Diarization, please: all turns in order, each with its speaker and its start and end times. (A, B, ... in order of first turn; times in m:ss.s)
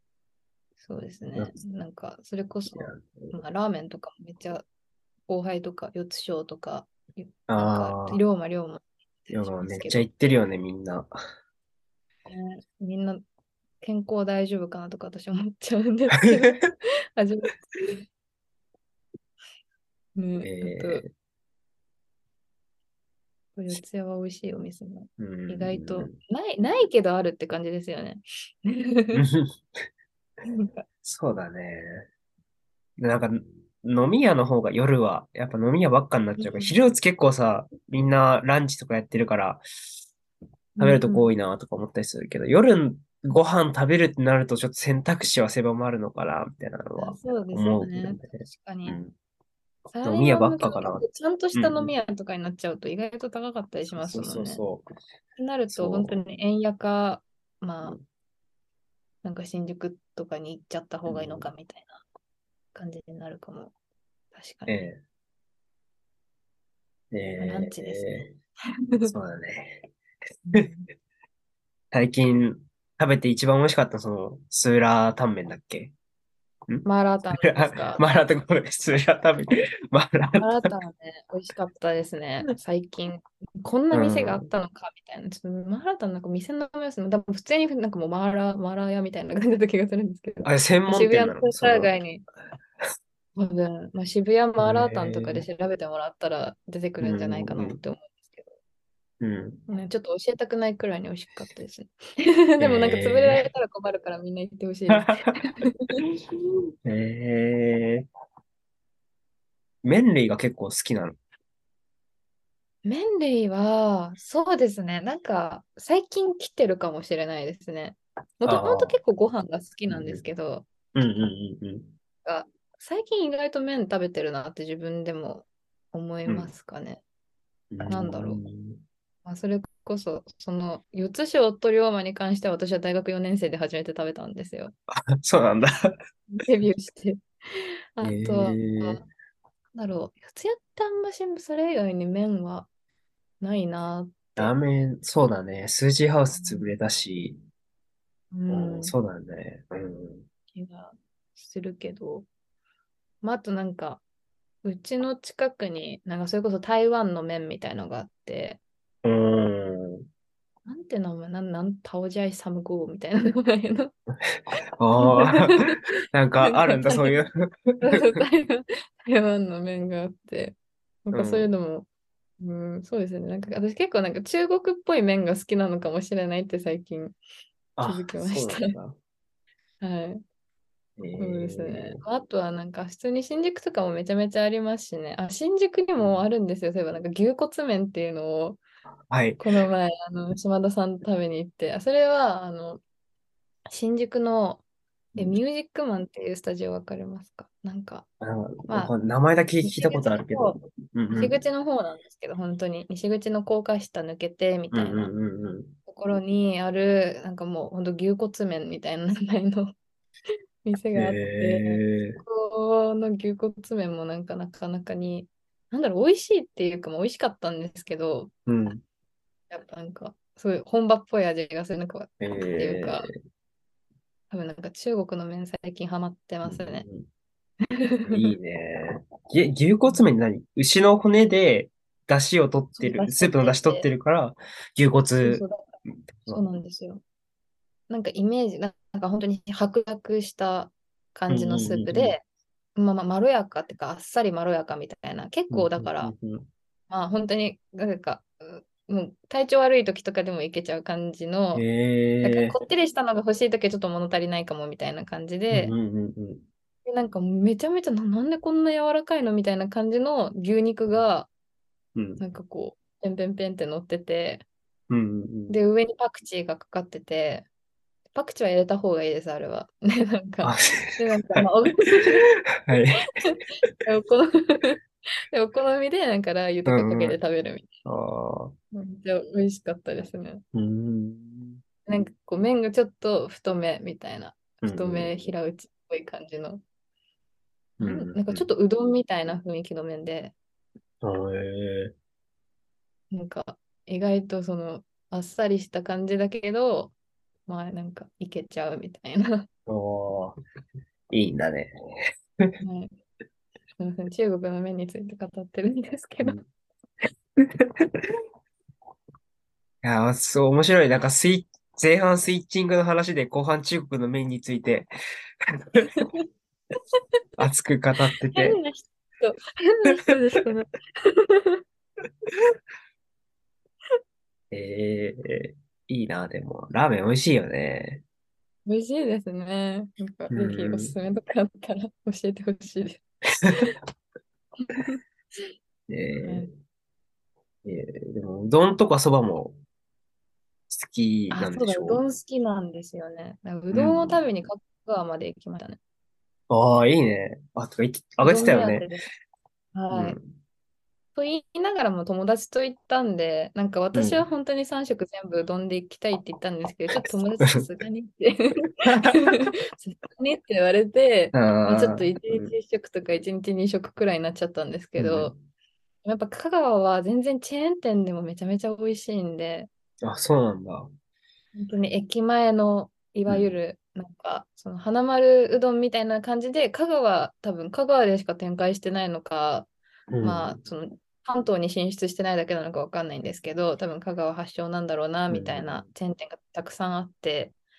0:00.8-0:04.6 A
0:02.7-0:03.4 B
0:05.3-0:10.1 A
0:07.5-0:08.2 B
0:09.3-0:11.1 B
0:12.3-0:13.2 A
0:13.8-0:16.6 A
0:17.2-0:18.0 A
0:20.2-0:21.0 A
0:20.4-0:21.1 B
0:23.6-0:29.2 A
0:25.2-0:26.2 B
0:29.1-0:29.6 B
0:30.4-0:30.8 A
0:31.0-0:32.1 B
0:33.0-0:39.6 B
0:36.4-0:36.7 A
0:40.8-0:41.3 A
0:40.8-0:49.1 B
0:47.0-0:49.0 A
0:49.9-0:54.6 A
0:50.0-0:51.9 B
0:53.9-0:54.9 B
0:55.4-0:58.0 A
0:55.7-0:56.1 B
0:59.2-1:02.0 A
1:01.1-1:01.5 B
1:02.7-1:03.7 A
1:04.3-1:04.9 A
1:04.7-1:05.0 B
1:07.1-1:08.4 B
1:07.4-1:08.1 A
1:09.1-1:09.9 B
1:10.4-1:10.9 A
1:11.9-1:15.9 B
1:16.7-1:20.7 B
1:16.8-1:18.0 A
1:20.4-1:32.2 A
1:23.9-1:24.5 B
1:30.4-1:31.9 B
1:33.4-1:38.5 A
1:34.6-1:35.4 B
1:37.0-1:37.8 B
1:39.2-1:39.6 B
1:39.7-1:45.7 A
1:42.6-1:43.5 B
1:44.9-1:45.3 B
1:46.8-1:48.1 B
1:49.8-1:51.2 B
1:52.8-2:00.6 A
1:58.4-1:59.0 B
1:59.9-2:00.2 B
2:00.9-2:01.9 B
2:02.2-2:07.0 A
2:07.7-2:08.8 B
2:07.8-2:08.4 A
2:09.2-2:14.7 A
2:15.2-2:15.9 B
2:16.3-2:17.2 A
2:18.0-2:19.1 A
2:18.0-2:19.0 B
2:19.7-2:22.7 A
2:23.4-2:24.5 A
2:24.4-2:27.4 B
2:26.3-2:26.7 A
2:28.3-2:28.9 A
2:28.5-2:30.2 B
2:30.5-2:32.3 A
2:33.2-2:34.0 A
2:34.6-2:38.6 A
2:39.0-2:40.0 B
2:40.6-2:43.9 A
2:44.3-2:48.2 B
2:45.0-2:45.8 A
2:46.4-2:47.2 A
2:47.8-2:50.6 A
2:51.1-2:51.9 A
2:51.1-2:51.5 B
2:52.4-2:57.2 A
2:57.8-2:59.0 B
2:57.8-2:58.8 A
2:59.8-3:00.2 A
3:01.0-3:02.0 B
3:01.2-3:08.6 A
3:06.0-3:06.3 B
3:09.1-3:09.4 B
3:09.4-3:12.8 A
3:13.7-3:14.6 A
3:15.2-3:18.1 A
3:18.2-3:21.4 B
3:18.7-3:18.9 A
3:19.6-3:20.6 A
3:21.1-3:25.1 A
3:24.7-3:25.8 B
3:25.8-3:29.7 A
3:30.6-3:38.3 A
3:30.9-3:32.2 B
3:38.5-3:38.8 B
3:39.5-3:43.1 A
3:42.2-3:43.1 B
3:44.3-3:46.8 A
3:46.4-3:47.0 B
3:47.9-3:48.3 A
3:48.1-3:55.4 B
3:52.8-3:53.9 A
3:55.2-3:55.7 A
3:56.3-3:57.0 A
3:57.9-4:02.2 A
4:01.3-4:02.2 B
4:02.8-4:06.1 A
4:05.5-4:06.5 B
4:06.9-4:11.6 A
4:11.5-4:12.5 B
4:12.2-4:15.7 A
4:15.5-4:16.4 B
4:16.8-4:21.3 A
4:22.0-4:22.2 B
4:22.2-4:24.4 A
4:24.9-4:25.6 B
4:25.5-4:27.5 A
4:28.1-4:34.8 A
4:30.4-4:31.4 B
4:32.6-4:33.0 B
4:35.3-4:37.7 A
4:36.6-4:37.2 B
4:37.8-4:38.5 B
4:38.7-4:40.4 A
4:40.5-4:41.6 B
4:41.8-4:46.6 A
4:44.6-4:45.3 B
4:47.8-4:48.5 B
4:47.8-4:50.3 A
4:51.0-4:51.9 B
4:53.1-4:56.9 A
4:57.5-4:59.4 A
4:59.7-5:00.4 B
5:01.1-5:01.7 B
5:02.6-5:02.9 A
5:03.8-5:06.4 A
5:09.8-5:14.9 B
5:15.6-5:15.9 B
5:17.4-5:18.6 B
5:18.3-5:21.6 A
5:24.5-5:28.0 B
5:28.6-5:33.0 A
5:30.3-5:30.9 B
5:33.4-5:33.7 B
5:34.6-5:35.0 A
5:35.9-5:36.5 B
5:36.2-5:36.5 A
5:37.6-5:39.6 B
5:40.7-5:42.0 B
5:41.3-5:45.8 A
5:43.7-5:44.2 B
5:46.5-5:48.8 B
5:48.2-5:49.0 A
5:49.7-5:50.2 A
5:49.9-5:50.3 B
5:51.1-6:05.4 A
5:53.9-5:54.2 B
5:58.8-5:59.5 B
6:01.3-6:02.5 B
6:05.0-6:05.3 B
6:06.0-6:09.7 A
6:10.0-6:10.9 B
6:11.5-6:19.7 A
6:13.3-6:13.5 B
6:20.1-6:20.5 B
6:20.2-6:27.5 A
6:25.3-6:25.8 B